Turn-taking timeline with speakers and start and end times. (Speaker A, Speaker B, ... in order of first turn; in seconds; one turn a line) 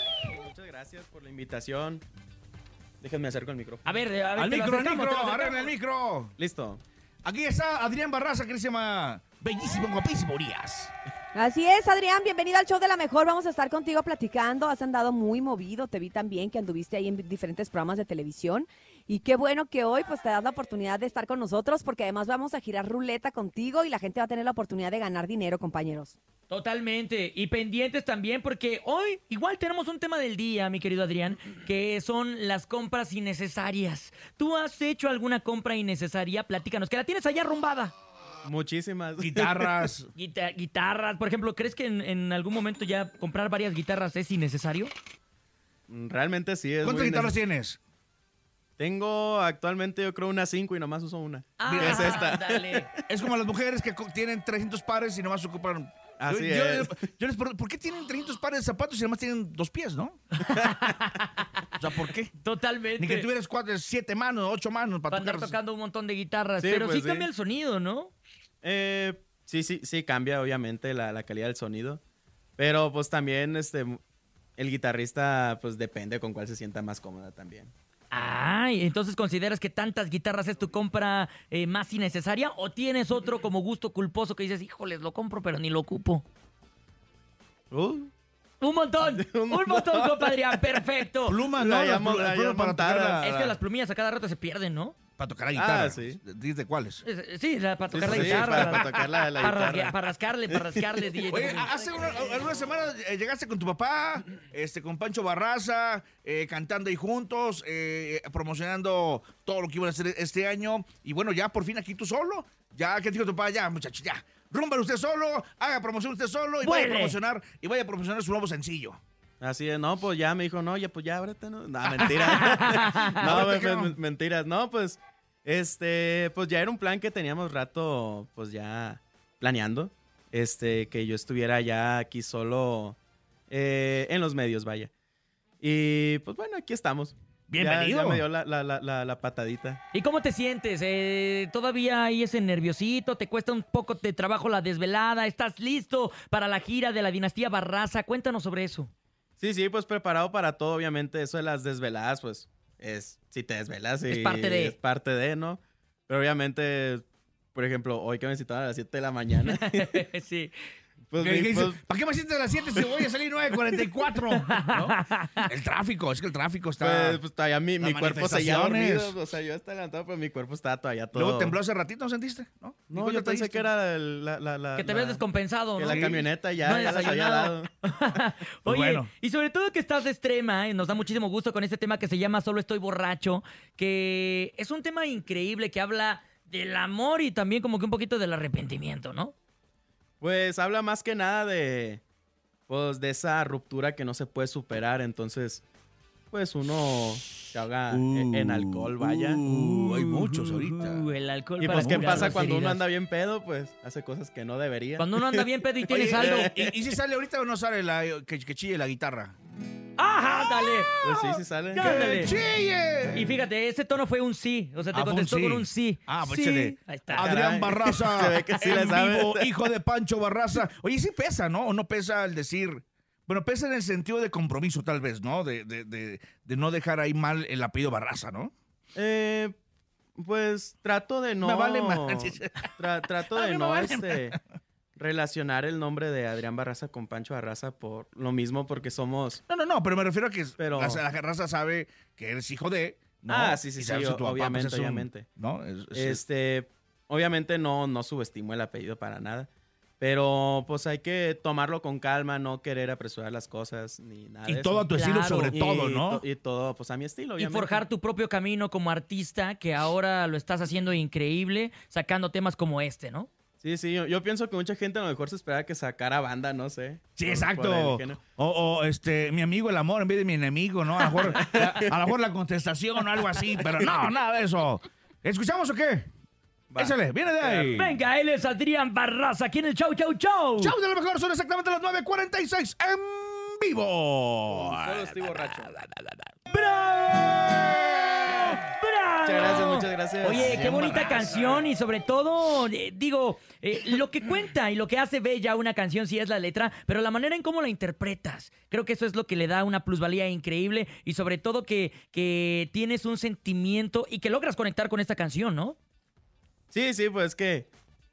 Speaker A: 0.2-2.0
Speaker A: 3.0-4.0
Speaker B: 3.8-5.7
Speaker C: 4.3-6.3
Speaker A: 6.4-6.8
Speaker C: 7.2-10.9
Speaker D: 11.3-26.2
Speaker B: 26.5-37.9
Speaker A: 38.4-39.7
Speaker C: 39.2-40.1
Speaker B: 40.1-44.9
Speaker A: 45.9-47.4
Speaker C: 46.8-47.8
Speaker A: 48.8-53.0
Speaker B: 51.6-52.9
Speaker C: 51.7-52.3
Speaker C: 53.1-60.2
Speaker A: 56.2-57.0
Speaker A: 60.5-60.7
Speaker B: 60.5-61.8
Speaker C: 61.8-62.3
Speaker B: 62.4-63.3
Speaker C: 63.0-65.5
Speaker B: 65.1-68.1
Speaker A: 66.6-67.3
Speaker A: 68.6-72.0
Speaker A: 72.6-74.0
Speaker A: 74.6-77.7
Speaker B: 78.1-86.2
Speaker A: 87.7-88.1
Speaker B: 88.6-91.4
Speaker A: 89.0-90.6
Speaker C: 91.2-93.6
Speaker A: 91.5-93.2
Speaker B: 93.2-95.0
Speaker C: 95.2-97.0
Speaker A: 95.5-96.2
Speaker B: 97.0-101.7
Speaker A: 97.9-99.9
Speaker C: 98.0-98.9
Speaker A: 100.5-100.8
Speaker C: 101.3-119.0
Speaker B: 116.6-117.2
Speaker A: 119.4-133.0
Speaker B: 122.2-123.1
Speaker C: 123.1-123.9
Speaker A: 133.5-134.9
Speaker A: 135.6-139.8
Speaker C: 137.5-138.2
Speaker B: 139.9-148.9
Speaker A: 149.4-157.0
Speaker B: 154.1-154.8
Speaker A: 157.5-160.0
Speaker B: 159.4-160.5
Speaker A: 161.1-161.8
Speaker C: 161.2-167.2
Speaker B: 164.3-165.5
Speaker A: 166.8-171.6
Speaker C: 167.8-169.1
Speaker C: 171.1-173.7
Speaker A: 172.9-175.2
Speaker B: 174.8-189.3
Speaker A: 175.7-177.7
Speaker C: 175.9-176.2
Speaker C: 178.7-179.1
Speaker A: 190.2-192.0
Speaker A: 192.7-195.6
Speaker A: 196.3-199.4
Speaker C: 197.9-201.1
Speaker B: 199.4-202.8
Speaker A: 201.6-207.0
Speaker C: 201.7-202.3
Speaker B: 205.0-206.5
Speaker C: 205.9-209.3
Speaker B: 210.0-212.3
Speaker A: 211.0-212.2
Speaker C: 211.8-213.3
Speaker B: 213.1-217.4
Speaker C: 214.9-228.5
Speaker A: 217.1-219.5
Speaker A: 228.9-229.5
Speaker A: 230.2-234.4
Speaker C: 231.4-232.7
Speaker C: 233.3-234.4
Speaker A: 235.0-239.4
Speaker C: 239.5-246.2
Speaker A: 240.6-241.0
Speaker A: 243.3-245.3
Speaker A: 245.9-249.5
Speaker A: 250.0-254.9
Speaker C: 254.5-256.2
Speaker B: 254.9-255.6
Speaker A: 255.5-257.8
Speaker B: 257.4-263.3
Speaker A: 263.6-268.2
Speaker C: 267.1-276.1
Speaker A: 271.3-271.9
Speaker A: 276.7-277.8
Speaker C: 276.8-277.9
Speaker B: 277.7-280.7
Speaker C: 280.6-286.2
Speaker A: 284.5-285.8
Speaker B: 286.5-305.8
Speaker A: 289.2-291.5
Speaker C: 290.3-291.6
Speaker A: 306.7-307.7